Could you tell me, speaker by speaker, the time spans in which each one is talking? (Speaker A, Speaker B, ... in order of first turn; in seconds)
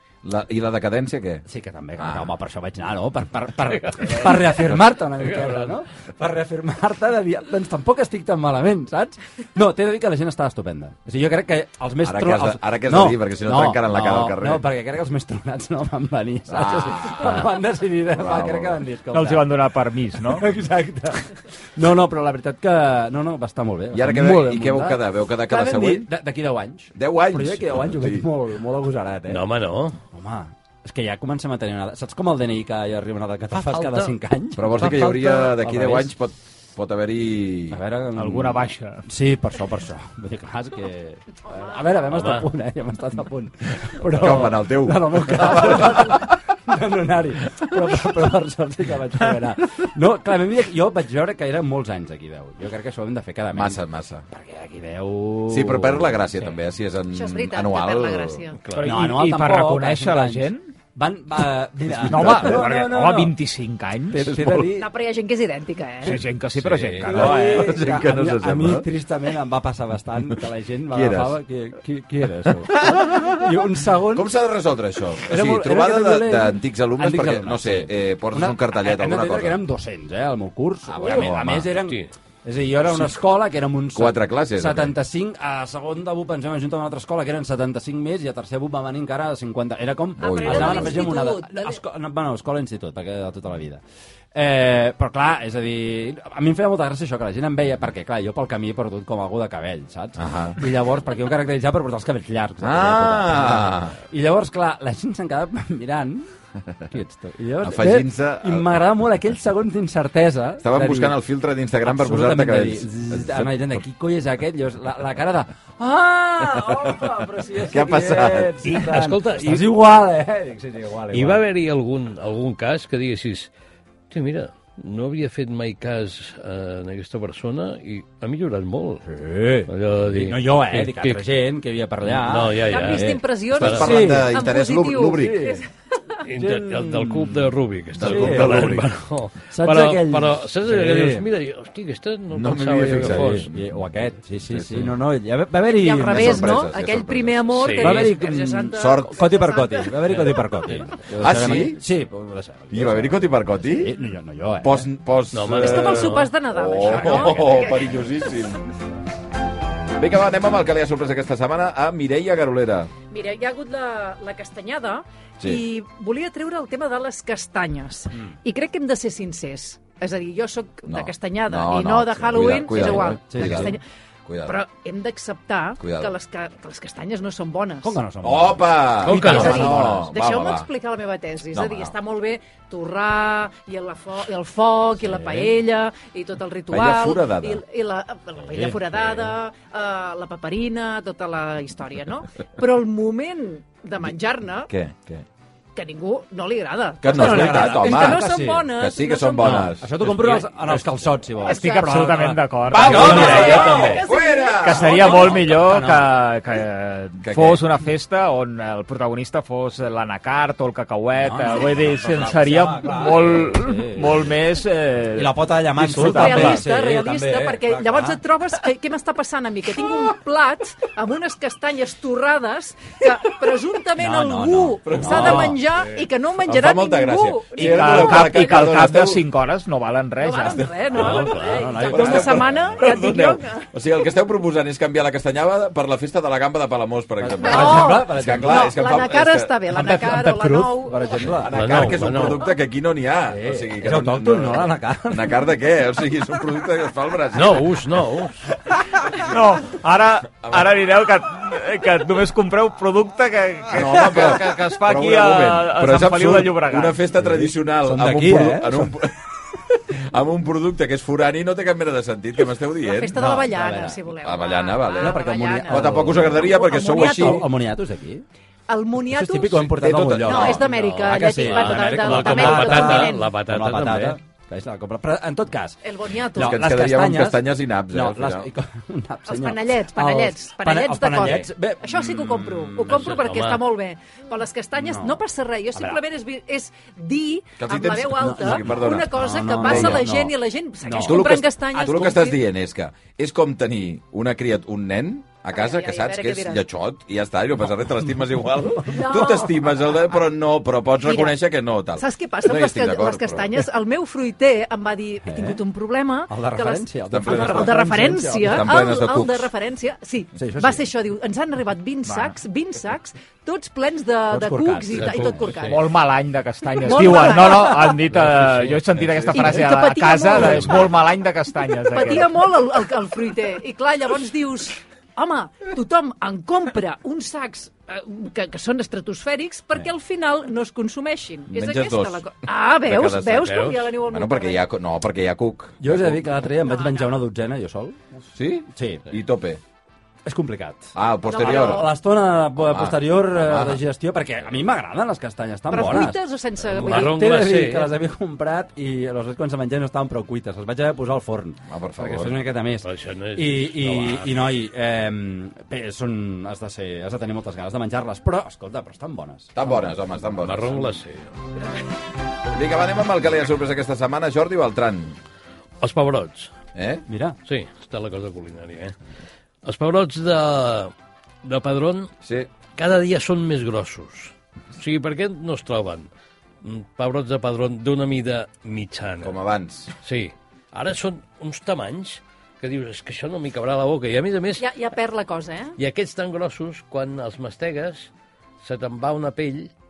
Speaker A: 0.2-1.4, 2.0-2.3, 12.0-14.7, 16.5-17.5, 18.1-18.8, 23.9-26.1, 26.9-28.3, 34.6-37.8, 44.0-46.3, 53.5-54.2, 55.5-58.5, 62.1-62.6, 64.2-64.7, 67.1-68.9, 70.9-71.4, 72.7-73.4, 74.1-79.6, 80.9-81.7, 82.8-83.2, 84.0-84.9, 90.2-91.0, 100.2-100.6, 102.6-104.0, 107.6-108.7, 110.6-113.5, 117.6-118.7, 133.5-135.4, 137.9-138.9, 142.3-143.8, 144.5-145.0, 146.0-147.6, 148.7-149.2, 151.1-151.8, 152.7-153.9, 154.6-158.6, 160.0-162.9, 170.9-173.7, 174.3-174.6, 175.8-176.1, 178.2-180.7, 181.5-181.9, 186.7-187.6, 194.7-195.2, 197.0-200.0, 202.7-205.4, 207.2-207.6, 224.8-225.5, 226.4-229.2, 231.9-239.5, 241.2-247.7, 249.1-249.4, 250.4-250.8, 253.7-259.1, 259.9-263.2, 264.2-267.4, 269.6-270.7, 276.3-278.5, 287.6-289.1, 289.6-290.0, 291.0-303.6, 307.1-307.7, 308.4-309.5, 331.5-332.3, 332.8-336.3, 338.4-339.6, 340.9-341.9, 342.6-343.8, 351.7-352.4, 359.6-360.9, 362.5-365.2, 366.8-367.0, 372.2-372.5, 379.2-379.9
Speaker B: 1.5-19.5, 20.2-29.4, 30.1-36.1, 37.7-56.2, 58.8-63.4, 64.1-64.9, 67.0-74.3, 75.3-93.8, 94.3-106.3, 106.9-111.2, 111.8-121.4, 129.1-134.4, 135.1-135.6, 136.4-137.5, 138.0-138.8, 139.5-141.3, 143.0-146.6, 147.8-154.9, 172.7-173.8, 177.8-180.2, 185.0-185.5, 197.1-198.7, 199.4-203.7, 205.4-206.1, 211.2-214.3, 215.1-218.2, 224.0-225.7, 231.0-232.5, 237.2-238.9, 239.7-241.8, 243.3-245.4, 257.2-259.0, 263.1-264.0, 265.0-268.2, 269.1-275.8, 276.3-283.0, 284.8-285.2, 285.7-286.0, 288.2-291.3, 298.7-299.5, 305.2-305.6, 306.3-308.7, 310.4-310.8, 314.3-315.5, 335.8-338.0, 338.7-339.1, 340.3-346.2, 346.7-359.6, 367.1-367.4
Speaker C: 3.8-5.7, 29.3-30.0, 33.6-34.1, 42.1-42.5, 66.6-67.3, 118.7-119.8, 121.1-123.5, 124.1-129.1, 129.7-131.3, 132.0-133.9, 136.2-143.5, 147.6-148.1, 155.3-156.3, 179.0-179.8, 202.8-204.1, 230.9-231.9, 241.5-242.5, 247.3-248.4, 270.7-274.2, 282.9-283.6, 314.9-315.8, 318.1-318.9, 333.4-333.9, 346.7-347.9, 352.8-354.4, 360.3-361.3, 365.8-366.5, 367.5-368.9, 369.6-370.9, 371.4-372.1, 372.8-376.1, 376.6-379.4, 380.0-384.7, 385.8-388.1, 388.6-389.7
Speaker D: 19.1-20.5, 38.2-39.0, 58.8-60.7, 62.1-64.3, 66.0-67.9, 201.4-216.6, 227.6-230.7, 248.7-257.0, 312.1-312.4, 315.7-322.4
Speaker E: 57.1-58.6, 64.7-66.3, 90.2-91.8, 132.7-136.2, 145.6-150.1, 155.5-158.1, 163.1-173.8, 174.4-178.0, 179.2-194.7, 195.8-199.7, 201.4-201.9, 202.9-205.4, 215.9-228.6, 230.2-233.7, 237.4-241.2, 262.8-267.5, 268.7-273.3, 275.8-276.6, 279.3-292.4, 295.5-296.6, 298.9-299.8, 301.0-301.4, 302.0-315.9, 316.8-318.0, 319.3-321.0, 321.9-334.6, 336.6-337.1, 341.3-341.9, 345.7-347.2, 384.6-385.8